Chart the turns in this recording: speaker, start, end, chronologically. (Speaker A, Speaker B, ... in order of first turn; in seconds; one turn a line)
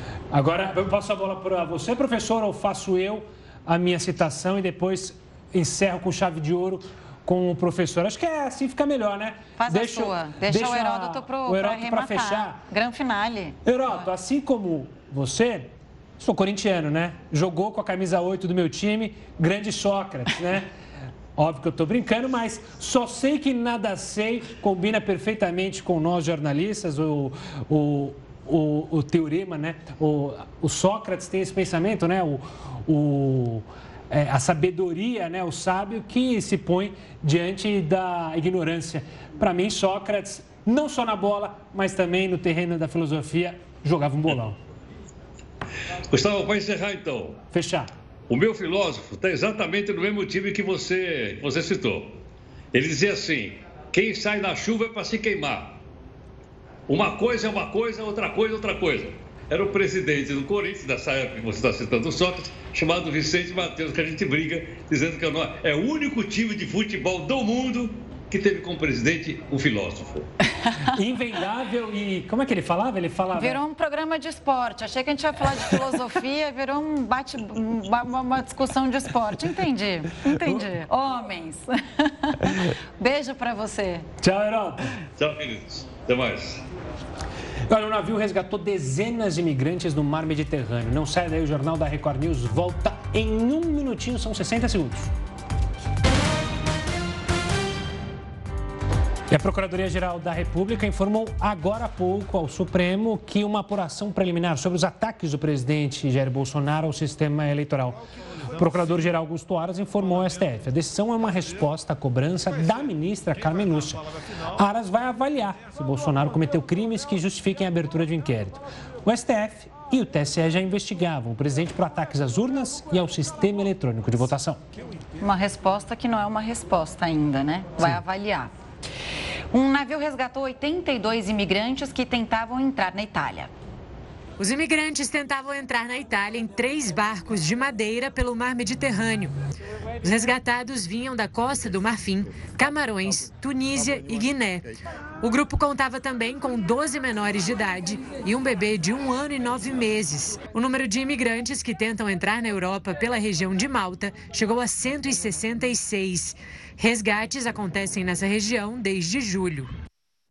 Speaker A: 0.3-12.6
Speaker B: 9.6-14.1
Speaker A: 13.7-20.7
Speaker A: 21.4-44.6
Speaker C: 46.1-47.4
Speaker A: 47.5-47.9
Speaker C: 48.3-52.2
Speaker C: 52.7-55.8
Speaker C: 56.9-70.3
Speaker A: 70.9-73.6
Speaker B: 73.3-84.1
Speaker A: 84.2-85.0
Speaker C: 85.2-86.6
Speaker A: 87.7-95.1
Speaker A: 99.3-108.0
Speaker A: 108.5-124.6
Speaker B: 125.2-128.5
Speaker B: 129.5-133.5
Speaker D: 134.4-139.3
Speaker D: 140.0-144.7
Speaker D: 145.2-159.7